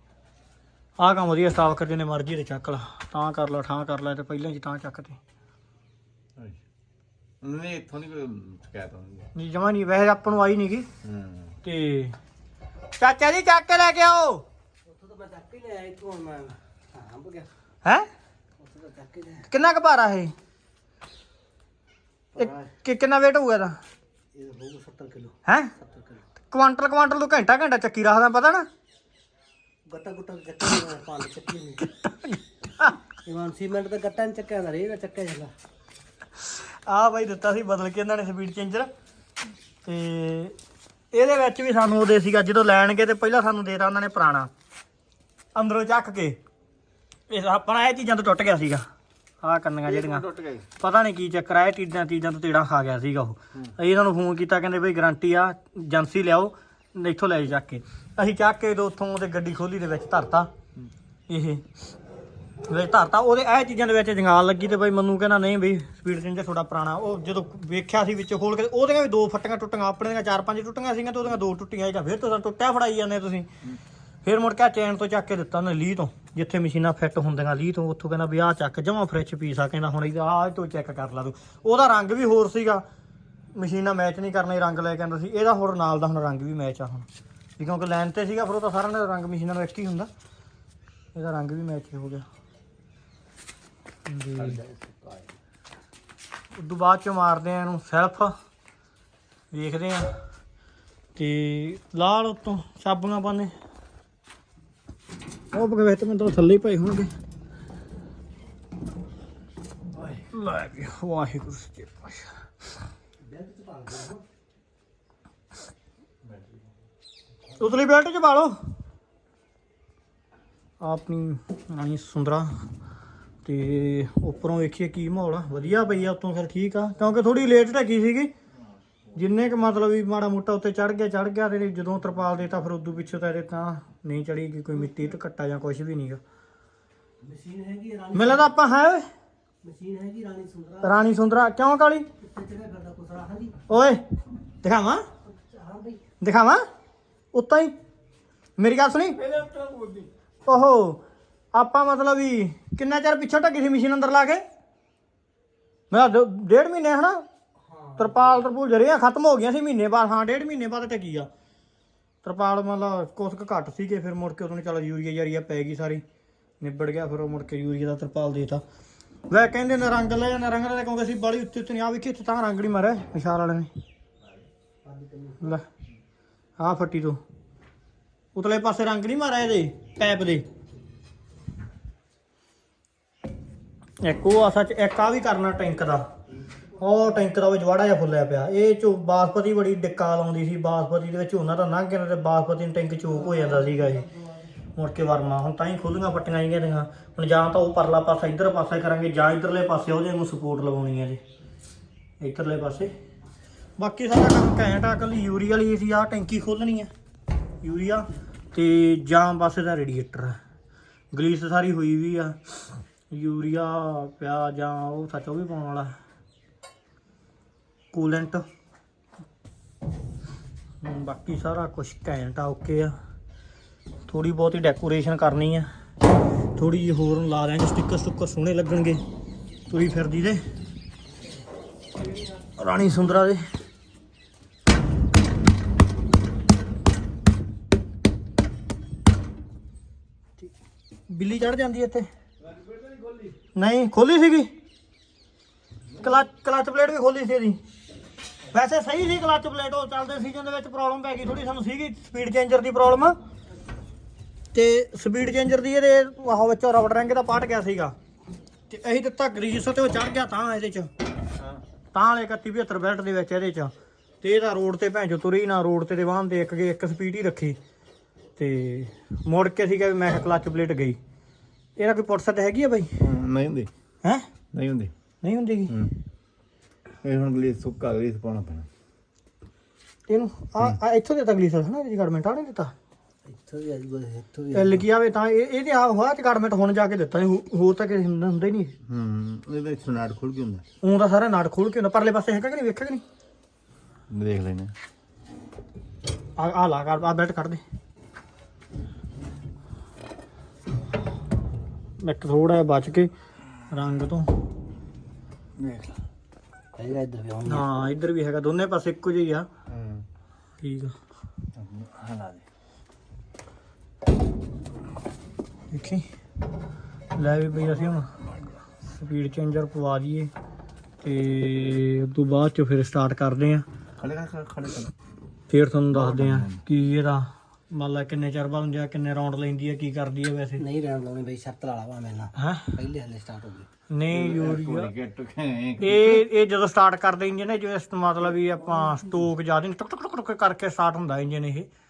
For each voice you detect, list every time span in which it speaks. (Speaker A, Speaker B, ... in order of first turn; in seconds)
Speaker A: 1.0-5.2, 9.3-10.9, 11.6-12.2, 13.0-14.4, 19.5-20.3, 22.4-23.8, 25.4-25.7, 26.5-28.6, 32.0-32.9, 36.4-38.9, 39.8-40.5, 41.1-44.5, 45.5-46.4, 47.3-48.9, 49.4-60.5, 61.3-61.6, 62.6-73.5, 74.2-82.8, 83.5-90.1, 91.1-92.2, 94.1-94.6, 96.5-98.3, 99.5-100.2, 101.2-103.5, 105.5-107.1, 110.3-112.3, 117.5-118.5, 120.8-122.5, 123.4-128.3, 129.1-136.2, 138.1-139.0, 140.8-142.1, 143.7-144.0, 144.6-145.0, 146.2-146.6, 147.3-147.7, 148.6-149.2, 150.4-151.0, 151.5-154.4, 155.9-157.2, 157.9-161.3, 162.2-166.0, 166.6-168.6, 169.3-173.7, 176.6-177.2, 178.3-180.4, 184.0-186.0, 186.8-194.1, 194.7-201.2, 202.2-202.9, 203.8-206.9, 207.6-210.4, 211.1-212.5, 213.1-215.9, 217.9-218.4, 220.8-222.9, 224.1-225.7, 226.5-229.0, 229.7-230.4, 232.4-233.4, 241.1-242.1, 243.5-244.5, 245.9-247.6, 248.5-253.2, 254.5-257.9, 258.7-260.9, 261.9-267.6, 268.4-271.0, 271.8-273.0, 275.2-275.7, 280.1-282.7, 284.5-288.7, 290.8-293.0, 296.4-297.6, 302.0-303.1, 303.7-304.3, 307.4-309.5, 310.6-310.9, 315.7-316.1, 317.1-318.2, 318.8-320.3, 321.0-323.6, 325.5-330.6, 332.3-332.7, 333.9-334.9, 335.8-341.7
Speaker B: 7.4-9.3, 11.0-11.6, 49.9-50.7, 94.3-94.7, 149.2-150.1, 273.0-273.7, 274.5-274.9, 275.7-275.9, 277.0-278.7, 288.9-290.6, 294.1-294.7, 305.6-305.9, 309.7-310.1, 311.5-312.4, 324.0-324.9, 325.9-326.6, 334.1-336.1
Speaker C: 14.8-17.5, 18.6-19.5, 22.3-22.7, 24.3-26.2, 29.9-31.9, 33.2-35.5, 94.7-95.2, 113.2-114.2, 137.2-138.6, 139.6-141.0, 142.2-143.7, 145.2-146.0, 174.8-175.6, 193.3-194.0, 283.3-284.9, 306.8-307.7, 330.6-333.7